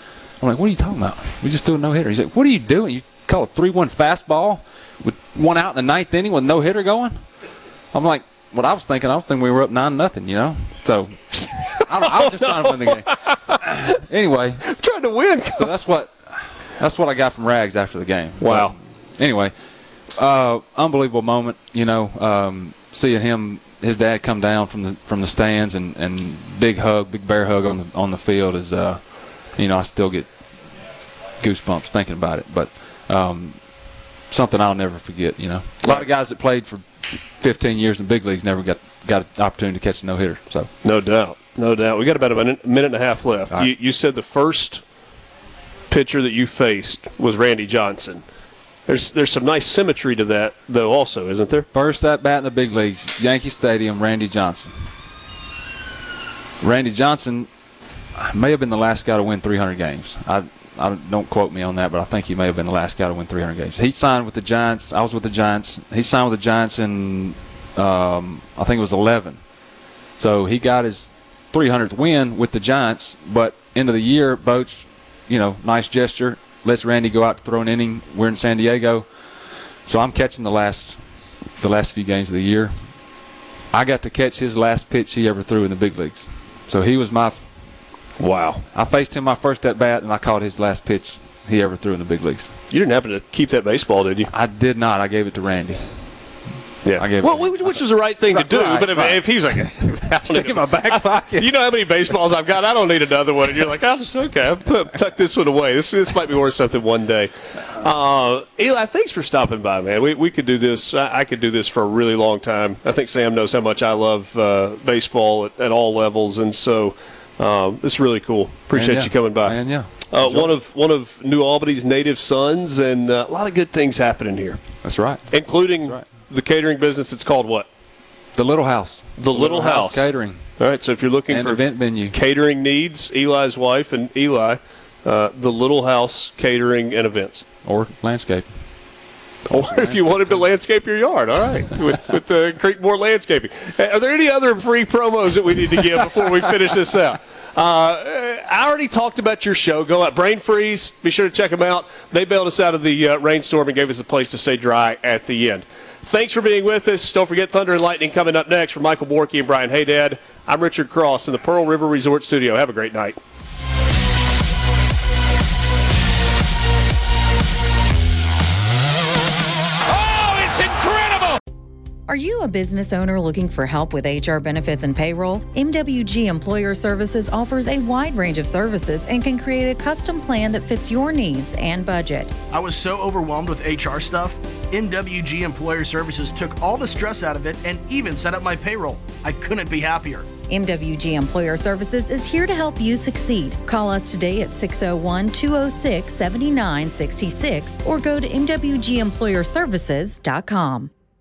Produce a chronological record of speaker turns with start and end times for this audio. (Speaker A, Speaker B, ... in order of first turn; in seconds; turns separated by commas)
Speaker A: 0.4-7.2, Speaker A: 7.9-13.1, Speaker B: 11.8-14.0, Speaker A: 13.9-14.7, Speaker B: 14.7-15.7, Speaker A: 15.5-19.5, Speaker B: 18.4-18.8, Speaker A: 20.2-30.3, Speaker A: 31.4-33.7, Speaker A: 34.3-40.7, Speaker B: 35.8-36.1, Speaker B: 40.8-44.8, Speaker B: 45.9-48.2, Speaker B: 48.9-51.7, Speaker A: 51.7-54.7, Speaker A: 56.6-57.5, Speaker A: 58.2-69.4, Speaker A: 70.2-79.1, Speaker A: 79.8-81.0, Speaker A: 81.6-82.9, Speaker A: 83.7-87.5, Speaker B: 88.2-88.6, Speaker A: 88.7-92.5, Speaker B: 92.7-94.3, Speaker A: 94.3-95.9, Speaker B: 96.8-124.6, Speaker A: 96.9-101.5, Speaker A: 118.7-120.6, Speaker A: 124.8-126.1, Speaker B: 125.3-127.7, Speaker A: 128.3-130.5, Speaker B: 129.2-137.4, Speaker A: 131.3-132.2, Speaker A: 137.7-138.5, Speaker B: 139.5-163.2, Speaker A: 139.7-140.5, Speaker C: 172.1-182.3, Speaker D: 182.5-190.3, Speaker C: 190.5-200.9